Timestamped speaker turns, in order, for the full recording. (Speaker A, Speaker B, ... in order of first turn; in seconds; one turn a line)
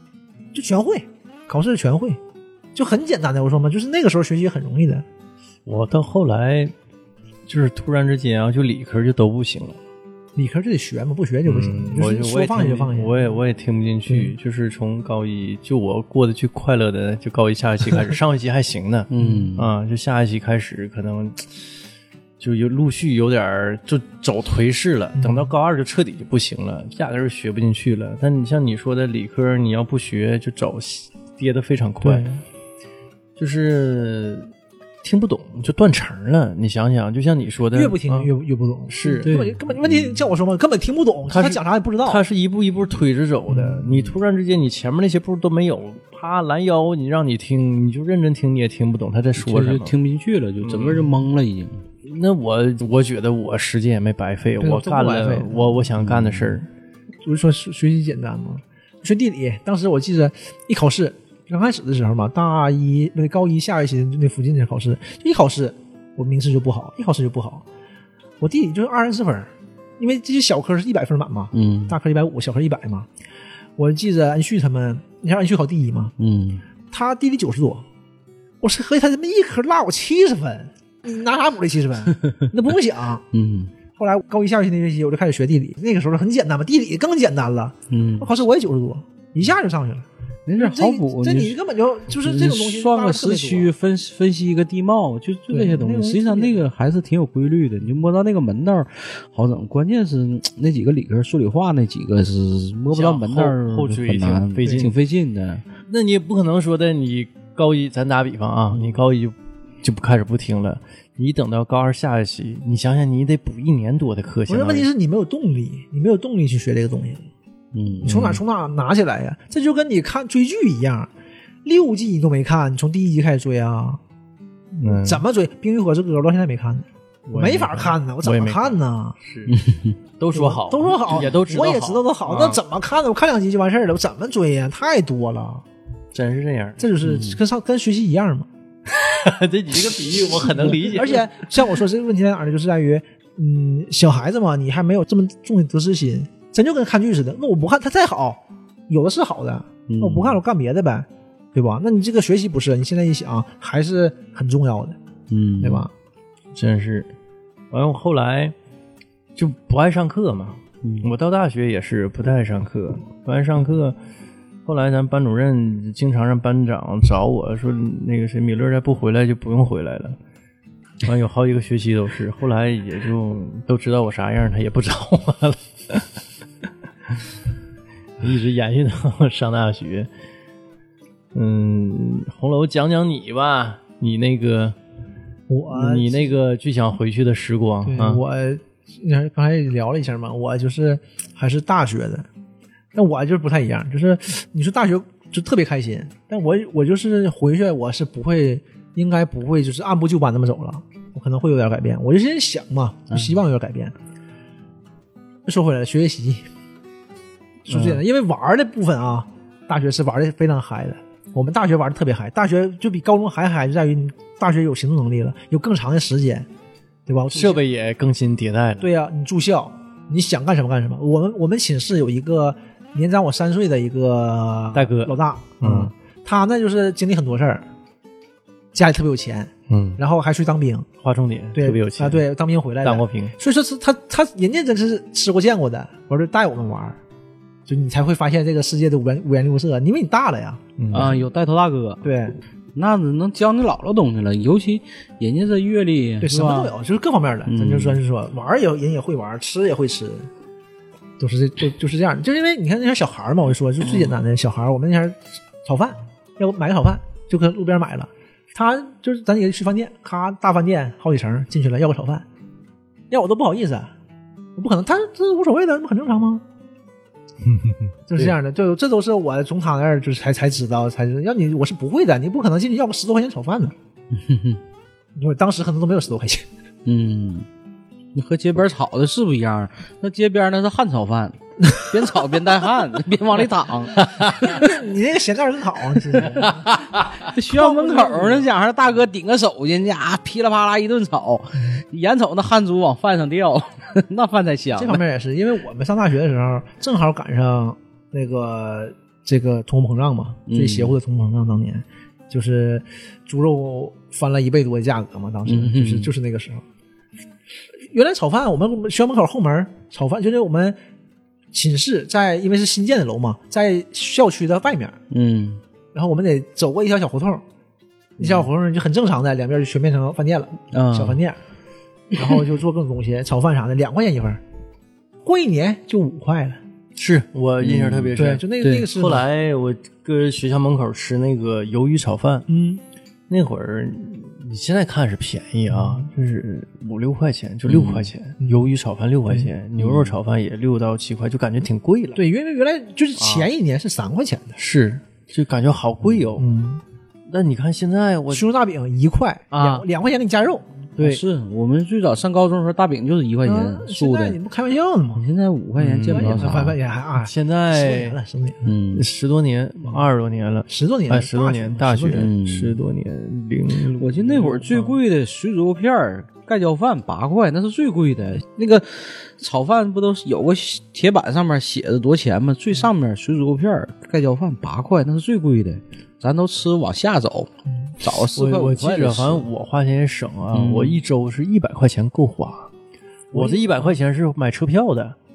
Speaker A: 0.5-2.2
Speaker A: 2.7-5.0
Speaker B: 5.7-6.7
Speaker B: 7.5-9.8
Speaker A: 10.3-13.2
Speaker B: 11.4-21.5
Speaker C: 19.1-19.7
Speaker A: 19.1-19.5
Speaker B: 22.4-32.2
Speaker A: 25.1-25.5
Speaker A: 32.0-32.4
Speaker B: 33.4-34.5
Speaker B: 35.0-38.3
Speaker A: 37.7-42.2
Speaker B: 38.9-40.3
Speaker C: 39.2-39.5
Speaker B: 41.3-49.9
Speaker A: 43.5-44.0
Speaker C: 49.4-51.8
Speaker B: 50.6-51.1
Speaker B: 52.0-56.7
Speaker A: 54.6-55.9
Speaker C: 56.0-56.5
Speaker A: 57.2-67.6
Speaker A: 68.4-73.1
Speaker C: 71.5-71.9
Speaker A: 73.8-76.1
Speaker C: 76.2-76.6
Speaker A: 76.9-77.8
Speaker A: 78.6-83.2
Speaker C: 83.3-83.7
Speaker A: 84.0-90.0
Speaker C: 87.9-88.3
Speaker C: 90.5-91.5
Speaker A: 90.6-93.7
Speaker C: 92.1-105.6
Speaker A: 95.5-96.7
Speaker B: 102.9-105.0
Speaker B: 105.9-114.9
Speaker A: 114.5-117.3
Speaker C: 117.7-118.1
Speaker B: 118.0-118.4
Speaker A: 118.0-121.1
Speaker A: 121.6-124.0
Speaker B: 124.8-125.2
Speaker A: 124.8-129.2
Speaker B: 127.3-129.6
Speaker C: 129.5-129.9
Speaker B: 130.2-132.6
Speaker A: 130.3-135.6
Speaker B: 136.1-136.8
Speaker A: 136.8-138.5
Speaker C: 137.0-137.4
Speaker B: 138.9-141.3
Speaker A: 140.6-154.9
Speaker C: 149.9-150.4
Speaker C: 155.3-155.9
Speaker A: 155.6-155.9
Speaker B: 156.5-157.1
Speaker B: 157.7-158.5
Speaker B: 159.3-163.9
Speaker B: 164.6-170.2
Speaker B: 171.0-176.2
Speaker B: 178.2-180.1
Speaker B: 181.3-184.8
Speaker A: 185.5-186.3
Speaker B: 185.7-188.2
Speaker A: 187.8-192.3
Speaker A: 192.9-203.9
Speaker A: 205.4-206.4
Speaker A: 207.7-216.5
Speaker B: 207.7-208.0
Speaker A: 217.1-217.6
Speaker B: 217.3-218.9
Speaker A: 218.8-227.6
Speaker B: 224.7-225.9
Speaker A: 228.7-230.9
Speaker B: 229.7-230.0
Speaker B: 231.0-232.2
Speaker A: 231.5-237.0
Speaker B: 232.8-233.3
Speaker A: 237.7-241.2
Speaker B: 240.8-241.2
Speaker C: 240.9-242.0
Speaker A: 242.0-242.3
Speaker C: 242.8-246.7
Speaker A: 246.2-250.3
Speaker C: 247.5-248.0
Speaker A: 251.2-262.2
Speaker C: 253.8-254.1
Speaker A: 263.1-263.9
Speaker A: 264.6-266.4
Speaker B: 267.4-268.3
Speaker A: 268.1-273.7
Speaker C: 274.1-274.6
Speaker A: 275.1-276.4
Speaker C: 276.9-277.5
Speaker C: 278.1-284.7
Speaker B: 284.0-284.4
Speaker A: 284.4-286.7
Speaker C: 286.1-295.0
Speaker A: 287.4-288.4
Speaker A: 294.8-306.6
Speaker C: 300.5-300.9
Speaker C: 305.5-306.1
Speaker A: 307.9-310.8
Speaker A: 311.5-315.0
Speaker C: 315.1-315.6
Speaker A: 315.9-317.4
Speaker A: 318.2-321.4
Speaker C: 320.7-321.2
Speaker A: 322.1-324.4
Speaker A: 325.2-326.6
Speaker B: 326.9-332.4
Speaker C: 327.6-328.9
Speaker A: 328.1-329.2
Speaker A: 332.5-332.8
Speaker B: 333.3-342.2
Speaker A: 335.7-336.1
Speaker C: 337.7-338.1
Speaker C: 339.8-340.2
Speaker A: 342.1-344.6
Speaker B: 343.2-343.5
Speaker B: 344.6-346.4
Speaker A: 346.4-346.8
Speaker B: 347.3-348.5
Speaker A: 348.3-350.7
Speaker B: 349.5-349.9
Speaker B: 351.0-351.2
Speaker C: 351.0-354.4
Speaker A: 353.4-355.2
Speaker C: 355.1-356.7
Speaker B: 355.8-358.2
Speaker A: 356.1-358.7
Speaker C: 358.6-359.1
Speaker B: 358.9-365.0
Speaker A: 360.7-362.3
Speaker C: 362.1-362.8
Speaker C: 364.0-379.5
Speaker B: 378.3-382.7
Speaker C: 380.5-381.0
Speaker B: 383.3-385.1
Speaker A: 383.3-383.9